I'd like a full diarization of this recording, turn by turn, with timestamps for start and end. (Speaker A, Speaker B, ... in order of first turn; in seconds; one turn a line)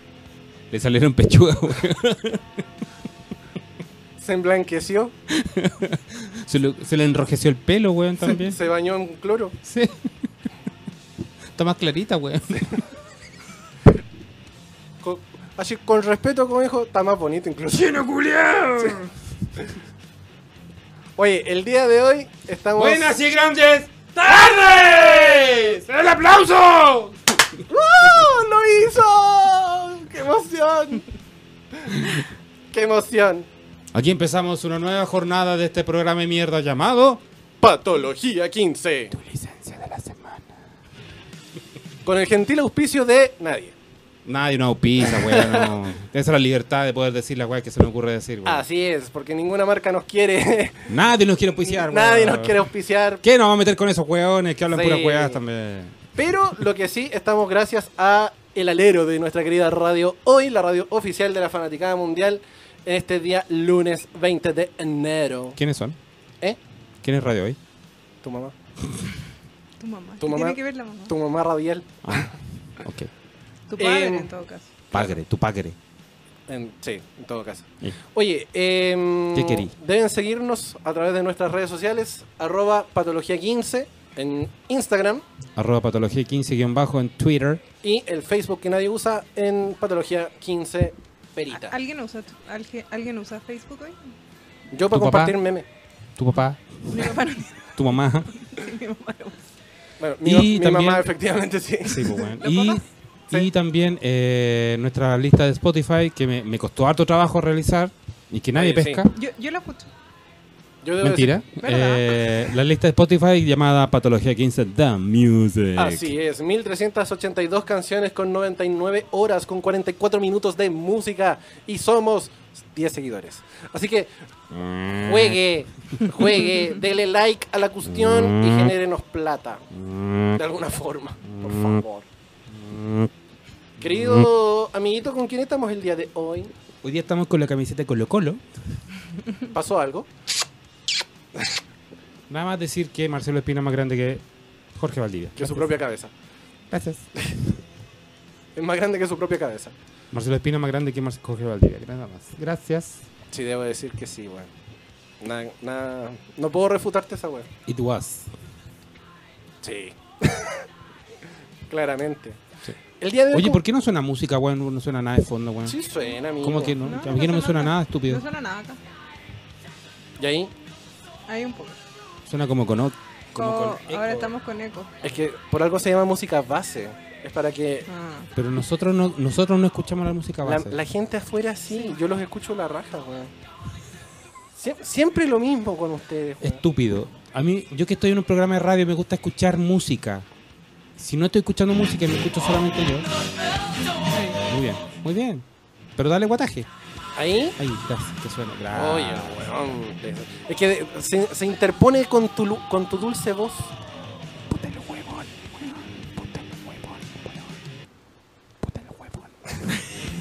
Speaker A: 0.7-2.6
Speaker B: 4.2-5.1
Speaker A: 5.3-8.6
Speaker B: 8.3-9.6
Speaker A: 9.6-10.1
Speaker A: 11.5-12.9
Speaker B: 15.0-18.0
Speaker A: 17.7-19.1
Speaker B: 18.8-19.0
Speaker B: 21.2-23.2
Speaker A: 22.7-27.6
Speaker B: 27.7-31.1
Speaker B: 31.9-32.2
Speaker A: 31.9-32.2
Speaker B: 32.7-33.5
Speaker A: 33.9-37.2
Speaker B: 37.6-39.1
Speaker A: 39.1-40.6
Speaker B: 42.0-43.8
Speaker A: 44.2-48.6
Speaker B: 45.0-45.7
Speaker B: 48.4-50.9
Speaker A: 50.9-52.6
Speaker B: 51.6-53.2
Speaker A: 53.2-56.0
Speaker B: 54.7-55.4
Speaker B: 56.2-65.6
Speaker A: 65.6-66.0
Speaker A: 67.0-67.6
Speaker B: 68.2-68.5
Speaker C: 69.8-71.1
Speaker B: 70.2-72.3
Speaker A: 72.0-73.1
Speaker C: 73.7-74.7
Speaker B: 73.8-74.3
Speaker A: 74.9-75.8
Speaker B: 76.5-85.2
Speaker A: 79.3-79.7
Speaker A: 85.5-87.6
Speaker B: 87.8-91.8
Speaker C: 91.5-94.0
Speaker B: 94.7-95.7
Speaker A: 94.9-95.4
Speaker A: 96.2-97.1
Speaker C: 96.9-99.4
Speaker A: 97.8-98.3
Speaker B: 100.0-102.1
Speaker A: 100.2-101.1
Speaker A: 101.8-109.1
Speaker C: 102.0-102.8
Speaker B: 108.5-109.0
Speaker C: 109.1-109.9
Speaker B: 110.8-111.4
Speaker A: 111.0-116.1
Speaker C: 111.6-112.1
Speaker B: 115.8-124.1
Speaker A: 124.5-125.4
Speaker B: 125.0-129.6
Speaker A: 127.8-128.8
Speaker A: 129.7-130.4
Speaker B: 130.3-132.1
Speaker A: 131.3-131.8
Speaker A: 132.5-133.1
Speaker B: 133.8-136.5
Speaker A: 133.8-134.3
Speaker A: 136.8-138.4
Speaker B: 139.5-140.1
Speaker A: 142.3-144.2
Speaker A: 144.7-145.7
Speaker B: 145.4-146.1
Speaker A: 146.7-147.1
Speaker B: 148.6-149.7
Speaker A: 150.1-153.0
Speaker B: 153.3-154.5
Speaker B: 155.2-157.5
Speaker A: 157.7-158.3
Speaker B: 159.6-160.7
Speaker B: 161.7-162.4
Speaker B: 163.0-163.6
Speaker A: 163.3-165.8
Speaker B: 165.7-166.8
Speaker A: 166.4-168.2
Speaker C: 166.8-168.8
Speaker B: 170.2-170.5
Speaker C: 171.3-171.8
Speaker A: 172.2-174.3
Speaker C: 173.3-175.0
Speaker B: 175.0-177.9
Speaker C: 177.9-178.3
Speaker A: 178.3-180.8
Speaker B: 180.4-183.3
Speaker B: 184.6-186.6
Speaker A: 186.4-190.3
Speaker A: 191.0-193.1
Speaker C: 194.1-194.4
Speaker A: 194.5-195.4
Speaker A: 196.0-196.7
Speaker B: 197.2-197.6
Speaker A: 197.6-199.6
Speaker B: 198.7-203.7
Speaker A: 204.5-207.5
Speaker A: 208.6-209.3